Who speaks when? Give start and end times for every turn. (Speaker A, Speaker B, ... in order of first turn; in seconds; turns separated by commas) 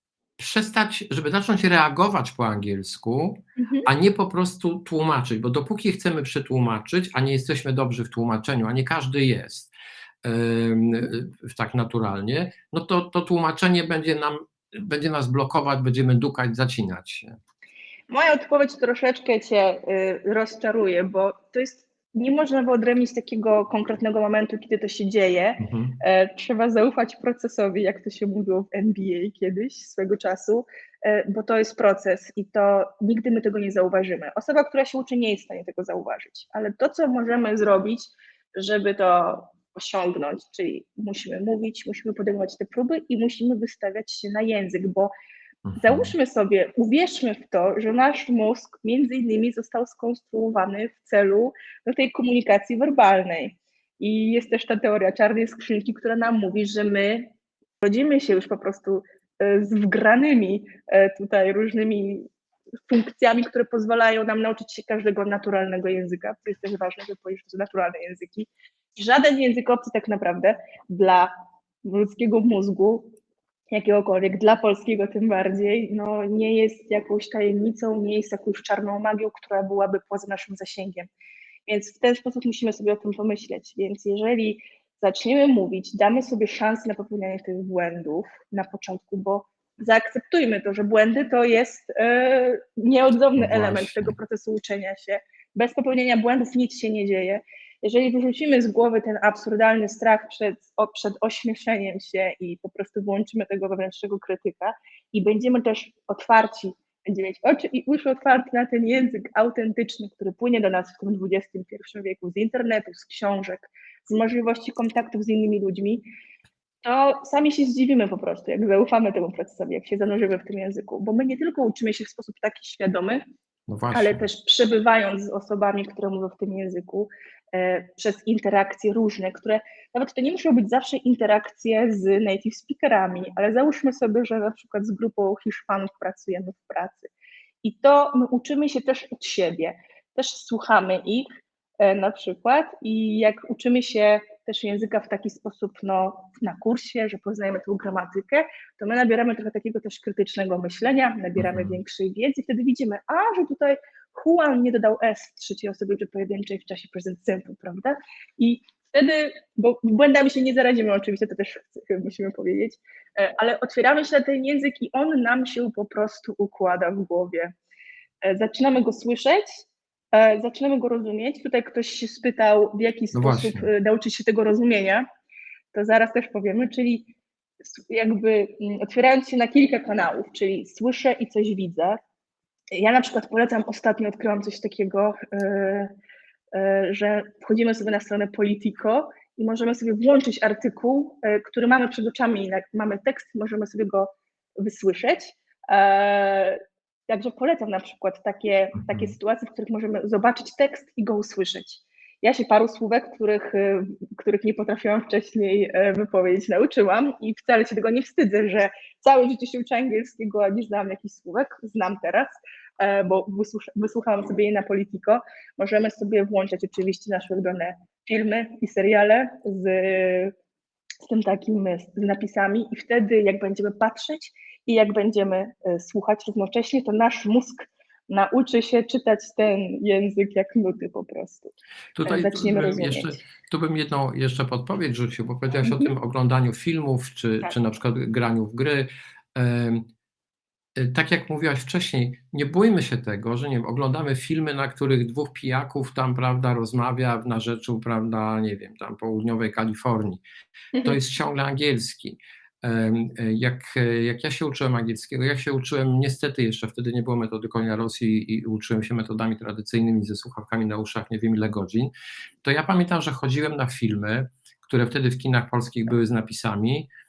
Speaker A: 0.4-17.4, Speaker B: 3.6-3.9, Speaker B: 18.1-45.1, Speaker A: 25.6-26.0, Speaker A: 45.6-46.1, Speaker B: 45.8-62.3, Speaker B: 62.9-71.3, Speaker B: 71.8-73.1, Speaker B: 73.7-81.1, Speaker B: 81.7-116.0, Speaker A: 93.3-94.1, Speaker B: 116.8-123.2, Speaker A: 123.7-124.2, Speaker B: 123.9-137.1, Speaker B: 137.6-141.3, Speaker B: 141.8-167.5, Speaker A: 151.4-151.8, Speaker B: 168.2-175.0, Speaker A: 173.1-173.7, Speaker B: 175.7-177.1, Speaker B: 177.6-182.0, Speaker B: 182.7-185.9, Speaker B: 186.5-196.6, Speaker B: 197.1-220.3, Speaker B: 221.0-233.2, Speaker A: 231.9-239.8, Speaker B: 235.6-235.9, Speaker A: 240.8-250.2, Speaker A: 250.8-261.9, Speaker A: 262.4-266.9